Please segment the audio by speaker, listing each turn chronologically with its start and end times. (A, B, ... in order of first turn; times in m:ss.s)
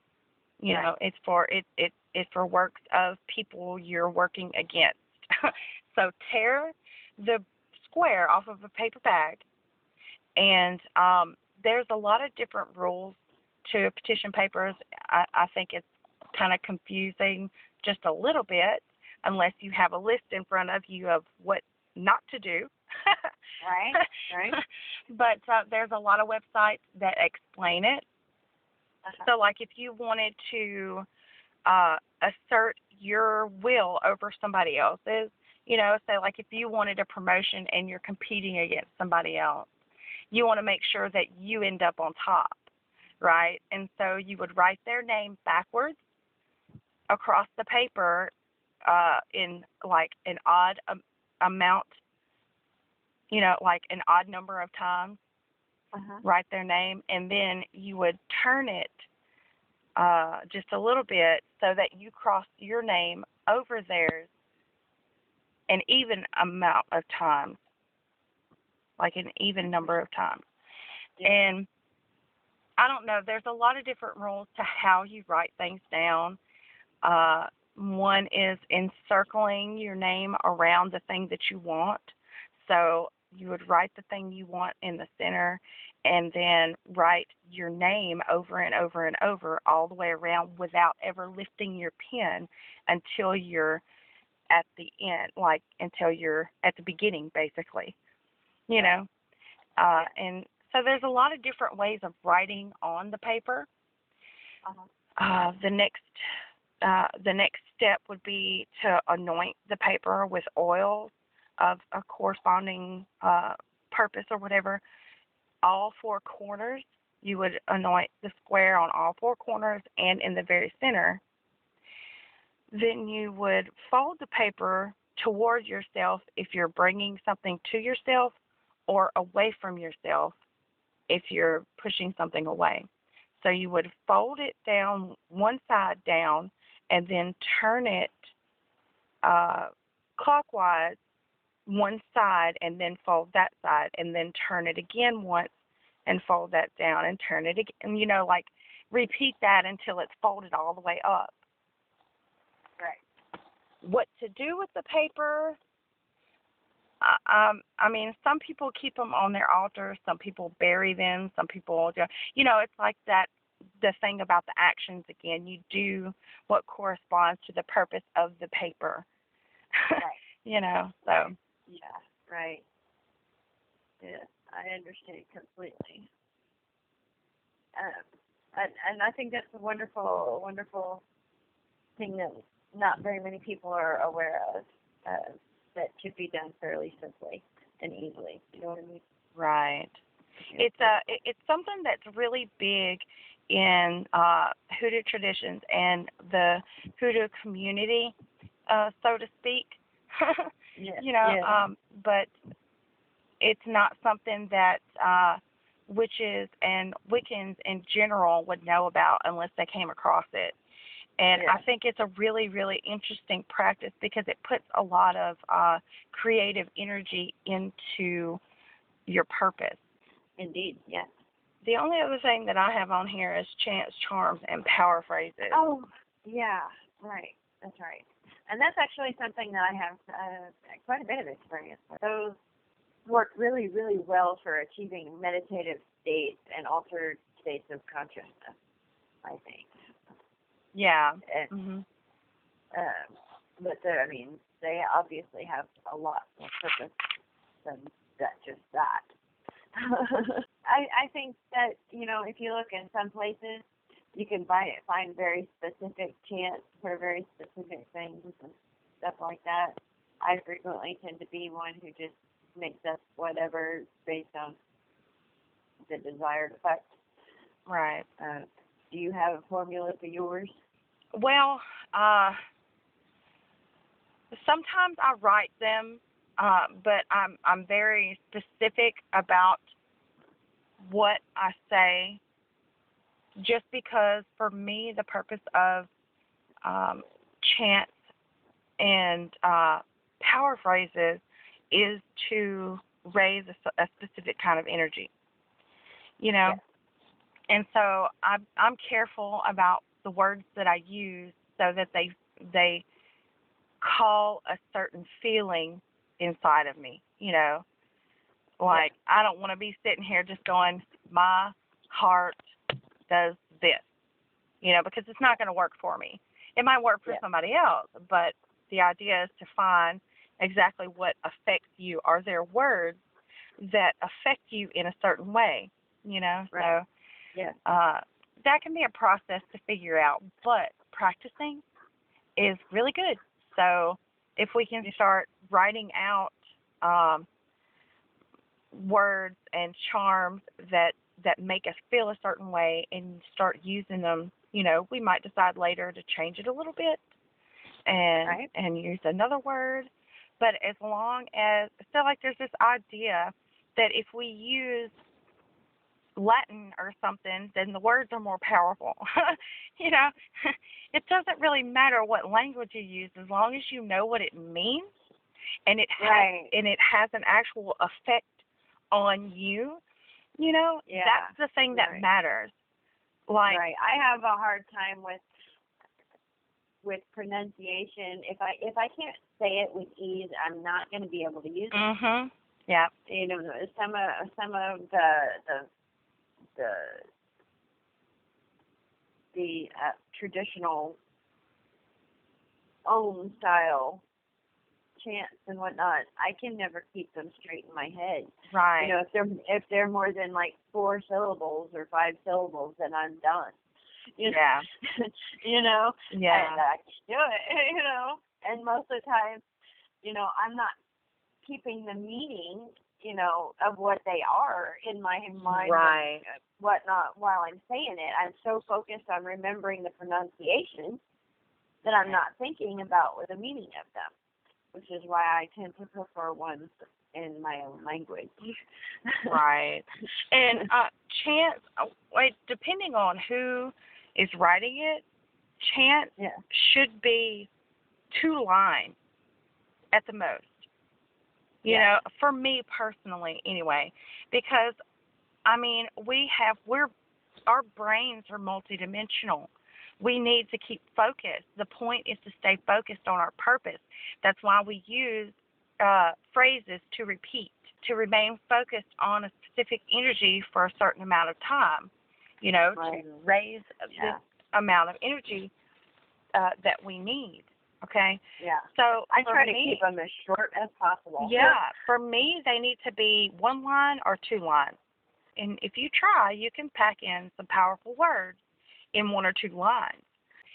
0:00.6-0:09.4 A
0:10.4-0:23.3 A
0:23.6-0:24.6 B
0:24.0-0:28.0 A
0:29.2-0:31.1 A
0:31.7-0:39.7 A
0:40.3-0:42.7 A
0:43.2-0:46.0 A
0:47.1-0:48.3 A
0:48.8-0:52.0 A
0:53.3-0:55.2 A
0:55.9-0:56.2 B
0:56.2-0:59.0 A
1:00.0-1:04.3 A
1:05.7-1:07.6 A
1:09.0-1:10.4 A
1:11.2-1:11.7 A
1:12.8-1:16.4 A
1:17.0-1:33.8 A
1:34.5-1:38.0 A
1:38.7-1:39.1 A
1:39.8-1:43.7 A
1:45.2-1:46.2 A
1:46.8-1:54.8 A
1:55.6-2:01.2 A
2:02.7-2:08.4 A
2:08.9-2:10.4 A
2:11.1-2:18.3 A
2:19.2-2:21.0 A
2:21.7-2:25.6 A
2:26.1-2:31.4 A
2:33.8-2:35.6 A
2:37.0-2:49.1 A
2:49.8-2:51.3 A
2:51.1-2:52.6 B
2:54.0-2:56.1 B
2:57.8-3:01.0 B
3:02.0-3:09.0 B
3:09.4-3:10.0 A
3:10.4-3:11.0 B
3:10.6-3:18.2 A
3:18.7-3:22.3 A
3:20.8-3:21.6 B
3:23.4-3:30.6 A
3:31.2-3:38.4 A
3:31.4-3:31.6 B
3:39.1-3:39.8 A
3:40.4-3:41.1 B
3:41.6-3:45.6 A
3:45.5-3:52.4 B
3:53.1-3:58.6 B
3:59.2-3:59.7 B
4:00.7-4:01.8 A
4:01.2-4:01.5 B
4:02.7-4:07.1 B
4:07.6-4:09.1 B
4:09.7-4:24.6 B
4:25.9-4:27.0 B
4:27.7-4:28.1 A
4:28.2-4:30.6 B
4:31.2-4:32.4 A
4:34.3-4:39.6 A
4:40.8-4:42.2 A
4:43.4-4:45.9 A
4:46.6-4:48.0 A
4:48.8-4:55.1 A
4:56.2-4:56.6 A
4:57.5-5:02.8 A
5:03.8-5:07.6 A
5:08.6-5:12.4 A
5:13.1-5:13.9 A
5:14.6-5:23.0 A
5:23.6-5:26.9 A
5:27.6-5:31.6 A
5:32.4-5:37.3 A
5:38.7-5:47.0 A
5:47.9-5:55.0 A
5:48.2-5:48.5 B
5:56.2-6:04.9 A
6:05.7-6:09.8 A
6:06.0-6:06.5 B
6:10.4-6:12.5 A
6:10.9-6:12.0 B
6:13.3-6:13.6 A
6:13.5-6:15.2 B
6:16.8-6:21.9 B
6:21.7-6:22.9 A
6:23.1-6:25.7 B
6:26.6-6:27.1 B
6:29.3-6:31.0 B
6:32.9-6:34.0 B
6:35.0-6:43.6 B
6:38.5-6:38.9 A
6:44.2-6:49.4 B
6:44.3-6:44.7 A
6:46.1-6:46.6 A
6:50.0-6:50.8 B
6:51.4-7:01.0 B
6:55.5-6:56.2 A
7:01.8-7:04.1 B
7:04.7-7:09.4 B
7:09.3-7:15.0 A
7:15.6-7:17.5 A
7:18.1-7:19.0 A
7:19.9-7:20.7 A
7:21.6-7:24.8 A
7:25.5-7:26.9 A
7:27.5-7:45.5 A
7:42.8-7:43.1 B
7:43.9-7:44.2 B
7:46.3-7:48.2 A
7:48.4-7:51.6 B
7:48.7-7:49.8 A
7:51.2-7:54.8 A
7:55.4-7:58.4 A
7:58.9-8:00.0 A